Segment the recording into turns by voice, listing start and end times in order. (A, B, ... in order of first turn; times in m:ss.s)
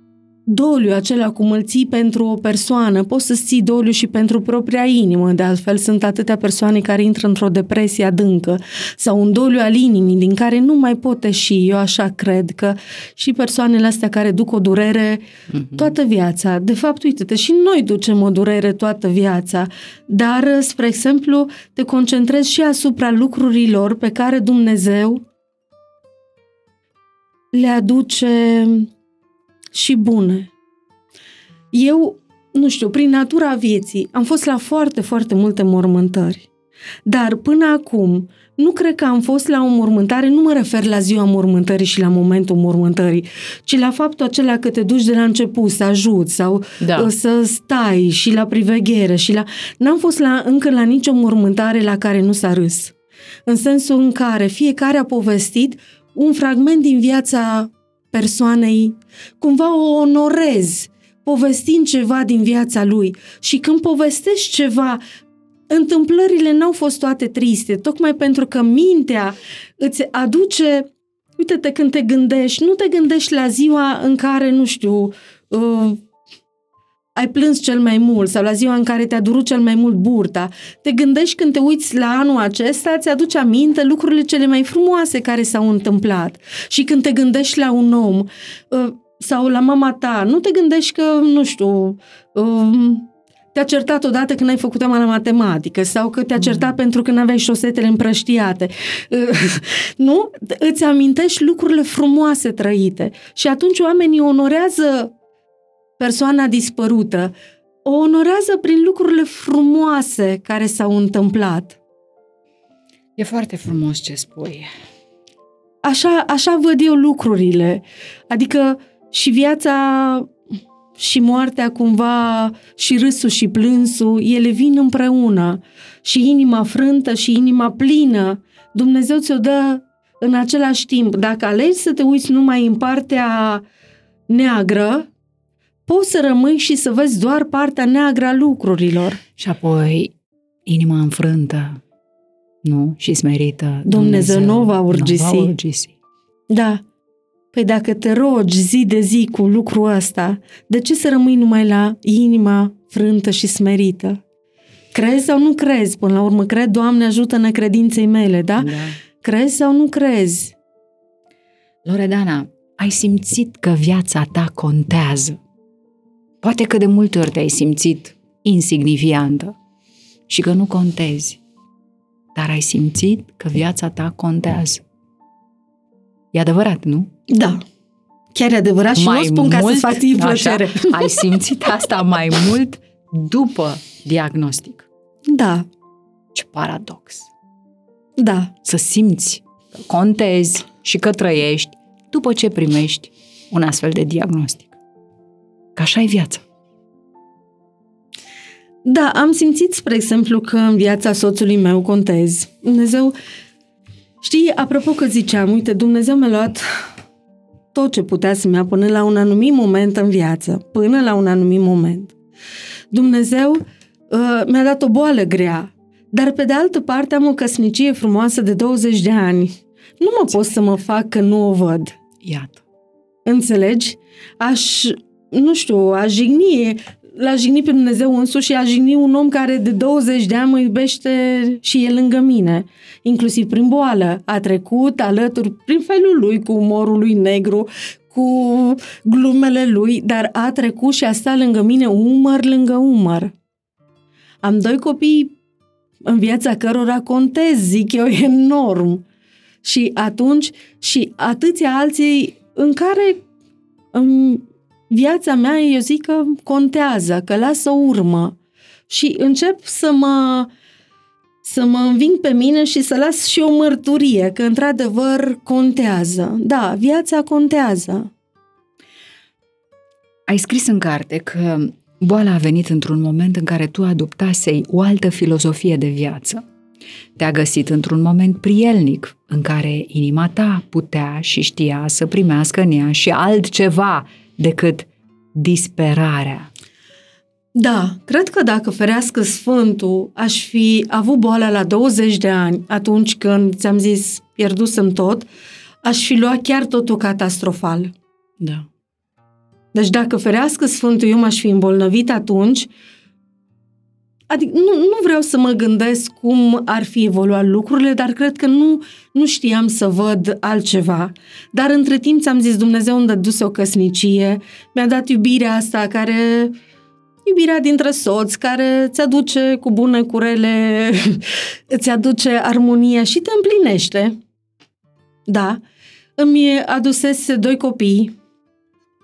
0:00.5-0:25.2 A
0:15.6-0:15.9 B
0:27.5-0:28.9 A
0:29.7-0:30.5 A
0:31.7-0:36.5 A
0:37.1-0:52.9 A
0:46.8-0:47.1 B
0:53.5-1:05.0 A
1:05.7-1:16.0 A
1:17.2-1:45.1 A
1:46.0-1:47.3 A
1:47.8-1:51.8 A
1:53.2-1:54.7 B
1:55.8-2:00.3 A
2:01.0-2:13.6 A
2:14.3-2:15.1 A
2:15.9-2:19.2 A
2:19.4-2:20.1 B
2:20.6-2:21.8 B
2:22.6-2:25.9 B
2:23.8-2:25.5 A
2:26.5-2:26.8 A
2:27.5-2:34.2 A
2:34.9-2:40.6 A
2:38.6-2:39.0 B
2:41.8-2:45.4 B
2:46.4-2:49.6 B
2:50.3-2:51.4 B
2:52.4-2:54.8 B
2:56.3-2:57.1 B
2:57.3-2:57.6 A
2:58.4-3:01.3 A
2:59.0-3:04.9 B
3:05.3-3:05.6 A
3:06.3-3:07.3 B
3:08.2-3:08.5 A
3:08.6-3:14.7 B
3:15.8-3:16.4 B
3:18.8-3:23.1 A
3:24.2-3:26.6 A
3:27.7-3:32.1 A
3:32.9-3:42.0 A
3:42.2-3:42.6 B
3:43.3-4:03.3 A
4:04.4-4:05.3 A
4:06.1-4:09.0 A
4:09.6-4:13.2 A
4:13.9-4:18.4 A
4:18.9-4:20.5 A
4:21.4-4:28.1 A
4:30.3-4:36.4 B
4:37.2-4:46.5 B
4:47.6-4:55.3 A
4:55.8-4:57.9 A
4:58.4-4:58.7 B
4:59.7-5:02.7 A
5:04.3-5:16.6 A
5:17.2-5:24.2 A
5:25.3-5:25.6 A
5:26.2-5:28.1 A